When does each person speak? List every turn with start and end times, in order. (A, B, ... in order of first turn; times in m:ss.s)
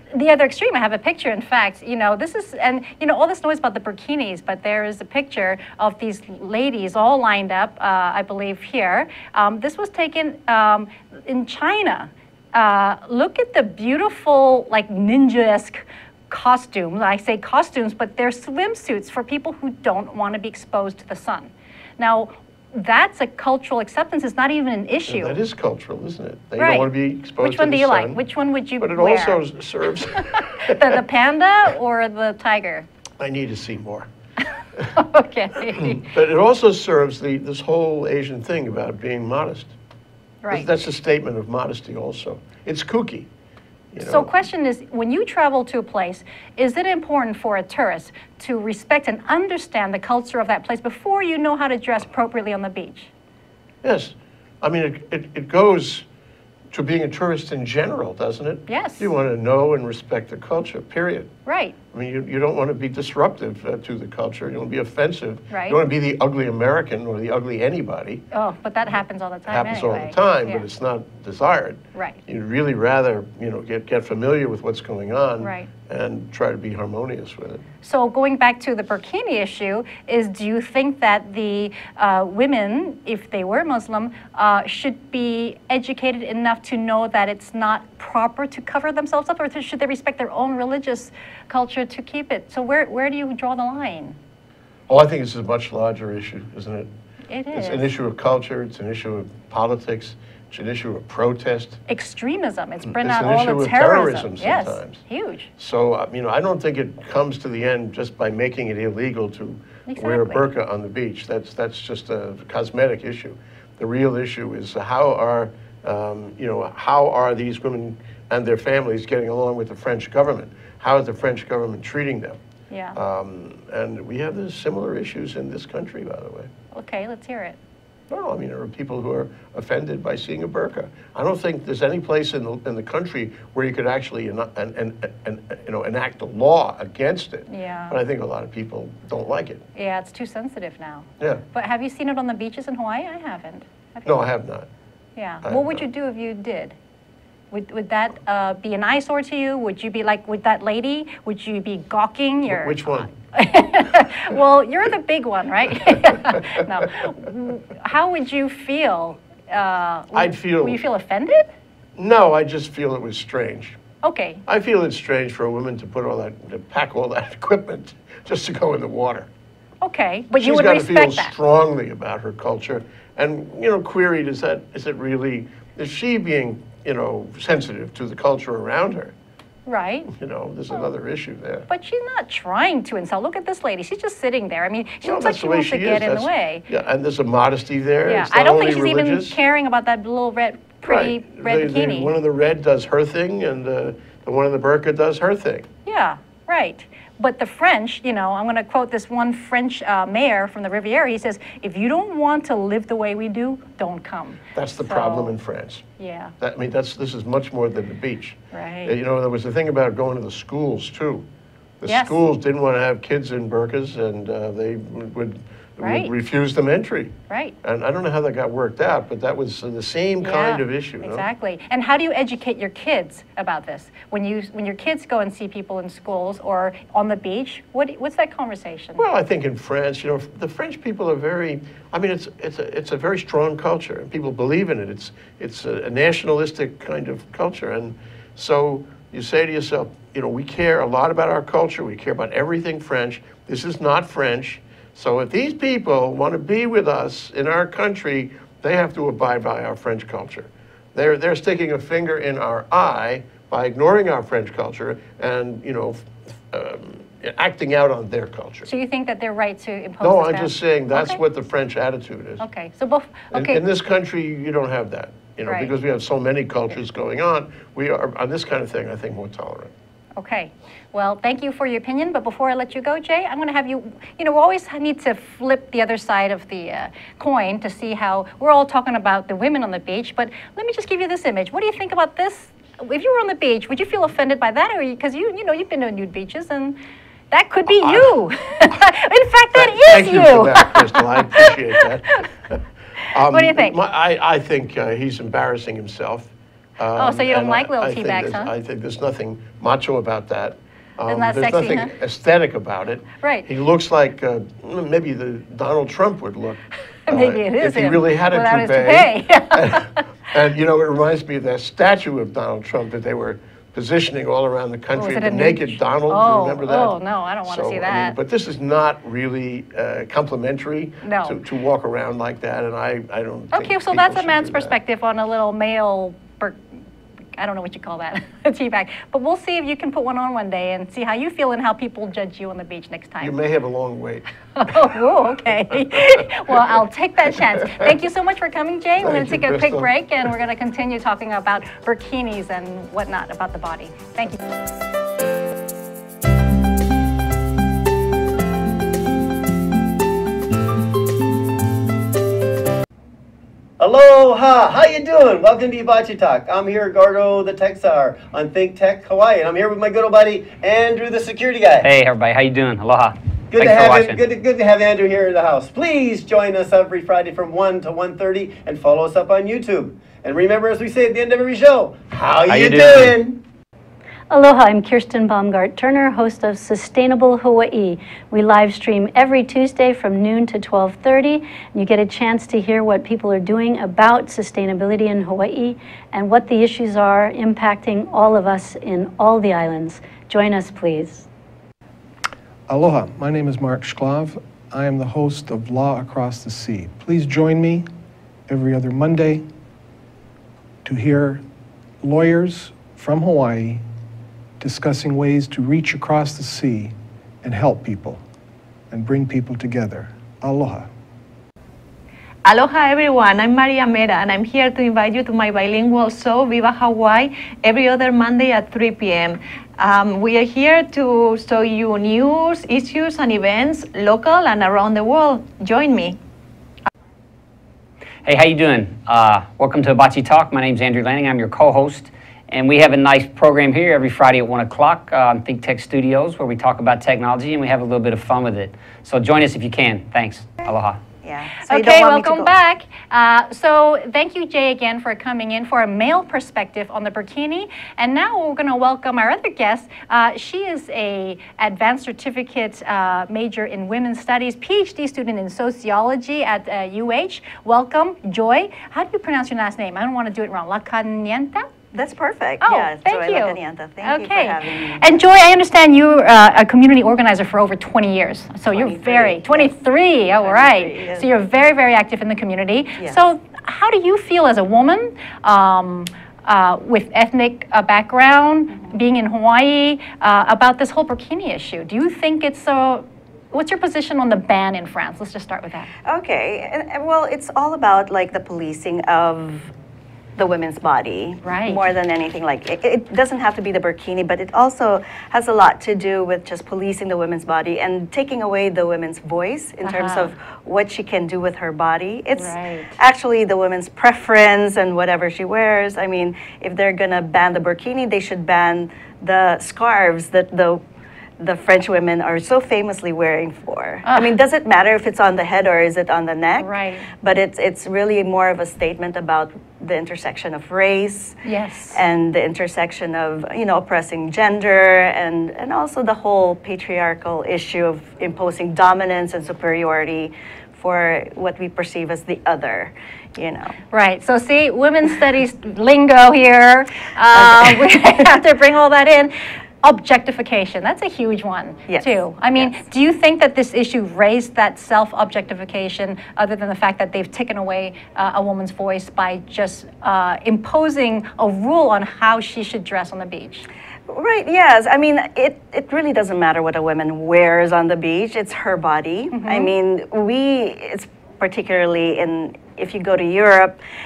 0:00.1-0:25.4 A
0:25.1-0:28.2 B
0:26.6-0:29.4 A
0:28.8-0:31.0 B
0:30.2-0:32.8 A
0:33.2-0:34.1 B
0:34.9-0:36.1 A
0:35.6-0:39.7 B
0:40.4-0:40.7 A
0:40.5-0:43.3 B
0:43.9-0:44.3 B
0:44.0-0:53.1 A
0:53.8-0:56.0 B
0:56.7-1:01.3 B
0:58.7-0:59.1 A
1:01.4-1:01.8 A
1:01.9-1:08.2 B
1:05.5-1:05.8 A
1:08.3-1:10.6 A
1:09.5-1:17.6 B
1:15.4-1:15.7 A
1:17.8-1:34.2 A
1:34.9-1:36.9 B
1:37.3-1:37.8 A
1:37.5-1:41.8 B
1:41.9-1:45.5 A
1:42.8-1:45.0 B
1:45.6-2:02.4 B
1:49.9-1:50.5 A
2:02.7-2:03.0 A
2:02.9-2:06.5 B
2:06.7-2:07.6 A
2:08.1-2:19.6 B
2:17.5-2:18.0 A
2:19.7-2:24.3 A
2:21.2-2:21.4 B
2:24.0-2:24.7 B
2:25.2-2:26.8 A
2:25.4-2:25.8 B
2:27.5-2:41.5 A
2:32.5-2:33.1 B
2:35.9-2:36.6 B
2:40.1-2:40.8 B
2:42.0-2:43.8 B
2:44.0-2:44.4 A
2:44.4-2:49.3 B
2:49.8-2:51.3 A
2:50.4-2:59.1 B
2:59.6-3:00.1 A
3:00.1-3:01.7 B
3:01.7-3:06.6 A
3:05.0-3:09.4 B
3:08.0-3:12.1 A
3:10.8-3:15.7 B
3:15.8-3:25.3 A
3:24.5-3:25.8 B
3:26.0-3:26.3 A
3:26.4-3:31.2 B
3:28.5-3:28.9 A
3:31.8-3:41.2 B
3:31.8-3:32.2 A
3:35.8-3:36.1 A
3:37.3-3:37.5 A
3:40.2-3:49.0 A
3:49.0-4:18.7 B
4:18.6-4:21.2 A
4:20.0-4:22.4 B
4:22.4-4:23.6 A
4:23.3-4:29.7 B
4:25.4-4:25.7 A
4:30.2-4:46.8 A
4:47.3-4:51.8 A
4:47.7-4:48.1 B
4:49.5-4:52.6 B
4:53.1-5:24.8 B
4:53.3-4:53.8 A
4:57.0-4:58.5 A
5:01.1-5:01.9 A
5:03.2-5:03.5 A
5:07.1-5:10.0 A
5:14.9-5:18.2 A
5:21.0-5:21.4 A
5:23.5-5:26.6 A
5:27.4-5:33.3 A
5:33.2-5:35.0 B
5:34.6-5:44.4 A
5:35.7-5:36.8 B
5:37.4-5:37.9 B
5:39.0-5:39.9 B
5:53.8-6:01.9 C
6:01.8-6:04.2 D
6:03.5-6:13.4 C
6:12.4-6:13.2 D
6:14.3-6:31.3 E
6:32.7-6:37.9 F
6:38.5-6:39.4 F
6:40.8-6:41.4 F
6:42.0-6:43.8 F
6:44.6-6:48.2 F
6:48.9-6:50.9 F
6:52.4-7:06.2 G
7:08.2-7:21.0 D
7:21.2-7:22.5 H
7:21.6-7:41.7 A
7:41.9-7:45.1 H
7:42.6-8:05.9 A
7:48.7-7:51.3 H
8:06.0-8:09.7 H
8:10.4-8:30.8 H
8:11.4-8:11.8 A
8:19.8-8:20.3 A
8:22.4-8:23.0 A
8:31.4-8:41.4 H
8:34.0-8:34.3 A
8:36.6-8:37.1 A
8:41.4-8:42.0 A
8:41.9-8:53.8 H
8:53.9-9:13.6 A
8:57.3-8:57.9 H
9:01.9-9:02.7 H
9:14.1-9:23.8 H
9:19.3-9:19.7 A